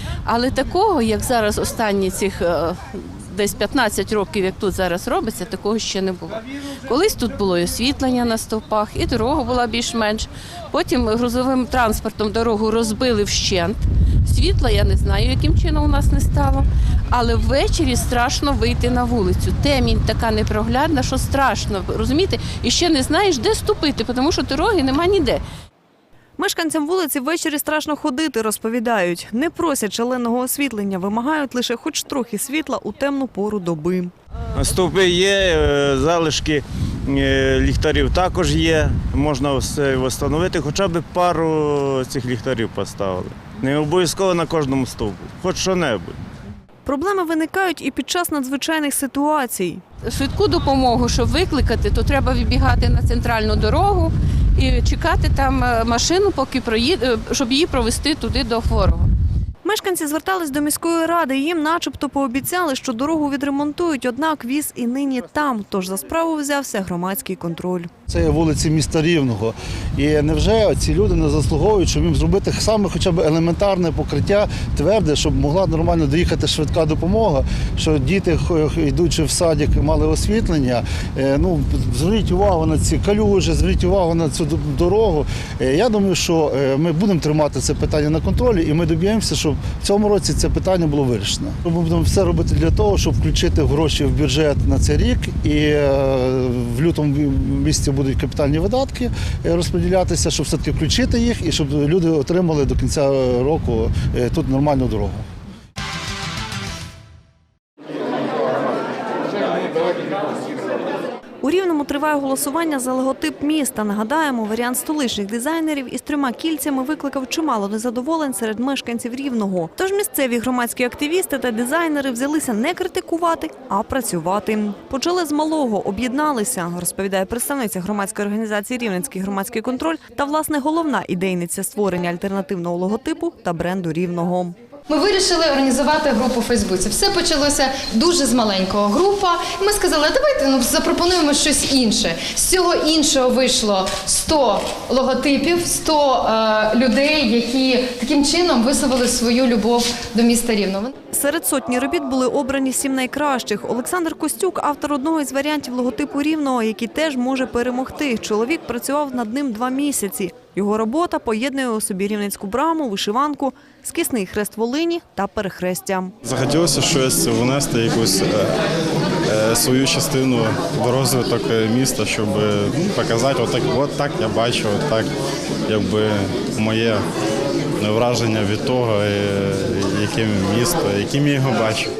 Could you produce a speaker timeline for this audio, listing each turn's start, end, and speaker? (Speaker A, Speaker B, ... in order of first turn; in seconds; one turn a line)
Speaker A: 0.3-25.4
Speaker B: 26.4-34.1
Speaker C: 34.5-46.2
Speaker B: 46.9-49.8
Speaker A: 50.0-59.1
Speaker B: 59.6-67.9
Speaker D: 68.1-105.3
Speaker B: 111.4-134.6
Speaker E: 134.9-150.9
Speaker B: 151.1-166.1
Speaker F: 166.2-168.5
Speaker F: 169.3-175.1
Speaker F: 175.7-177.0
Speaker F: 177.8-181.9